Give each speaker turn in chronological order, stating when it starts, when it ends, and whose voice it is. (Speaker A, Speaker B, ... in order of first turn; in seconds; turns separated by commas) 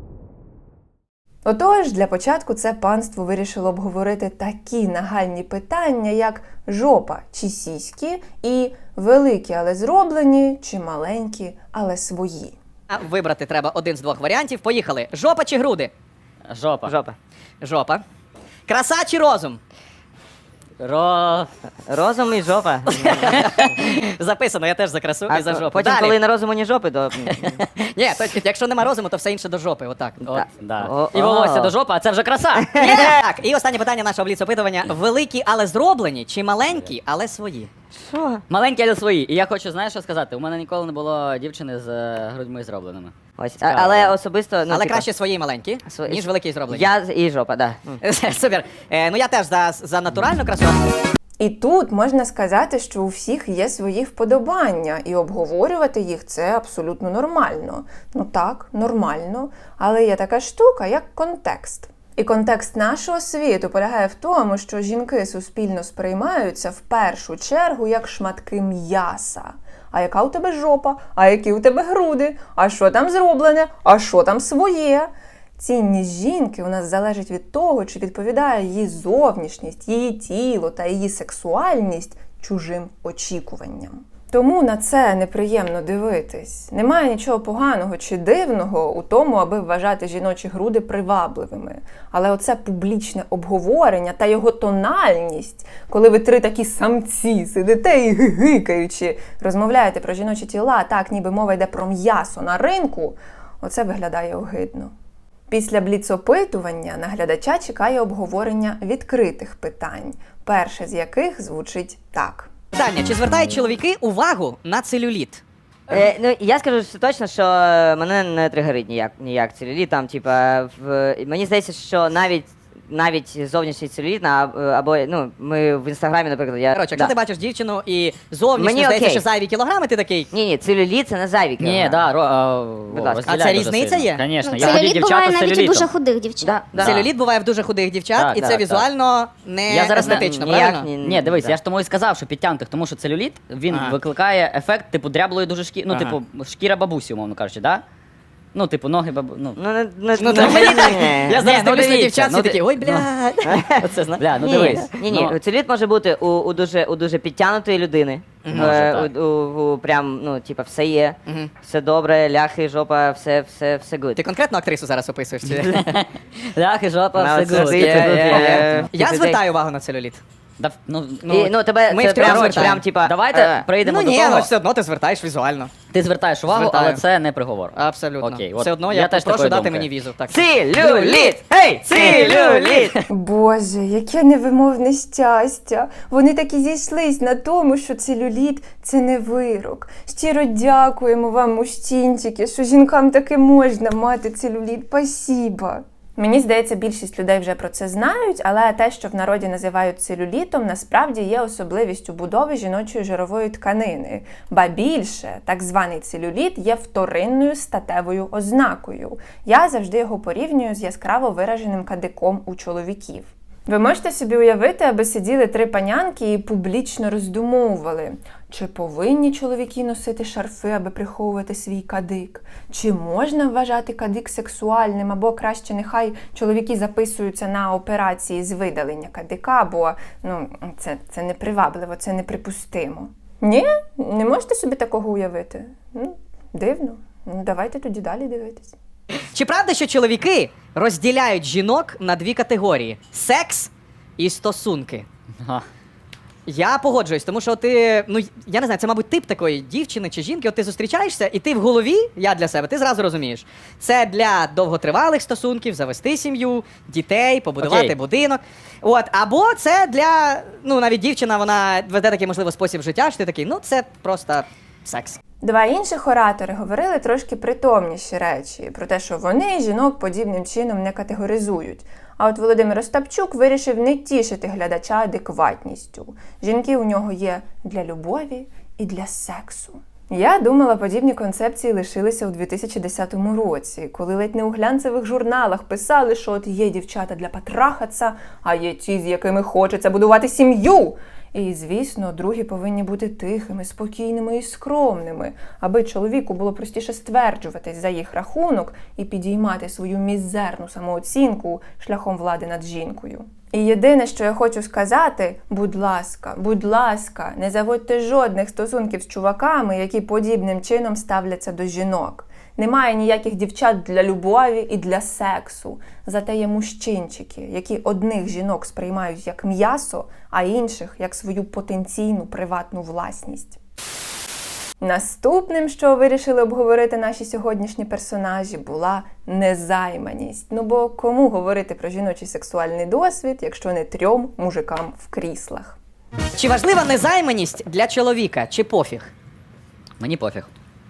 Speaker A: 1.4-12.6, Speaker B: 12.9-15.9, Speaker C: 16.5-16.9, Speaker D: 16.8-17.1, Speaker B: 17.6-18.0, Speaker B: 18.7-19.6, Speaker C: 20.8-21.5, Speaker D: 21.9-23.3, Speaker B: 22.9-26.2, Speaker D: 25.3-27.6, Speaker B: 27.8-30.2, Speaker C: 30.2-32.7, Speaker D: 30.3-31.8, Speaker D: 32.5-33.2, Speaker B: 32.8-37.7, Speaker D: 37.9-38.4, Speaker C: 38.5-44.1, Speaker D: 43.4-45.0, Speaker B: 44.7-46.9, Speaker D: 45.8-48.0, Speaker B: 48.0-50.8, Speaker A: 51.4-104.9, Speaker A: 105.5-112.5, Speaker B: 112.7-115.4, Speaker D: 115.9-127.1, Speaker B: 126.7-130.3, Speaker D: 128.6-129.2, Speaker D: 130.3-132.1, Speaker C: 131.6-135.9, Speaker D: 132.9-133.4, Speaker B: 133.2-134.8, Speaker E: 134.4-136.7, Speaker D: 136.4-137.0, Speaker B: 136.8-140.9, Speaker C: 136.8-137.0, Speaker C: 138.2-138.8, Speaker D: 138.3-138.7, Speaker C: 139.7-140.3, Speaker D: 139.9-141.6, Speaker C: 141.0-147.8, Speaker B: 143.7-143.9, Speaker C: 148.5-149.6, Speaker D: 149.6-152.1, Speaker B: 150.1-153.6, Speaker C: 151.4-153.1, Speaker D: 153.5-164.2, Speaker C: 153.8-155.3, Speaker B: 154.5-154.8, Speaker B: 158.4-158.8, Speaker C: 158.5-159.1, Speaker B: 164.2-165.8, Speaker C: 165.7-168.8, Speaker D: 167.1-169.4, Speaker B: 167.4-170.2, Speaker C: 170.6-171.5, Speaker B: 171.3-172.9, Speaker D: 171.3-174.2, Speaker C: 172.3-174.5, Speaker B: 173.8-175.7, Speaker C: 175.9-179.9, Speaker B: 176.5-177.0, Speaker B: 177.7-182.9, Speaker D: 180.3-183.0, Speaker A: 183.1-238.8, Speaker B: 239.3-245.1, Speaker C: 245.4-245.6, Speaker B: 246.4-265.2, Speaker C: 257.6-257.9, Speaker A: 265.4-323.6, Speaker A: 324.8-335.8, Speaker B: 336.4-339.1, Speaker C: 340.0-340.5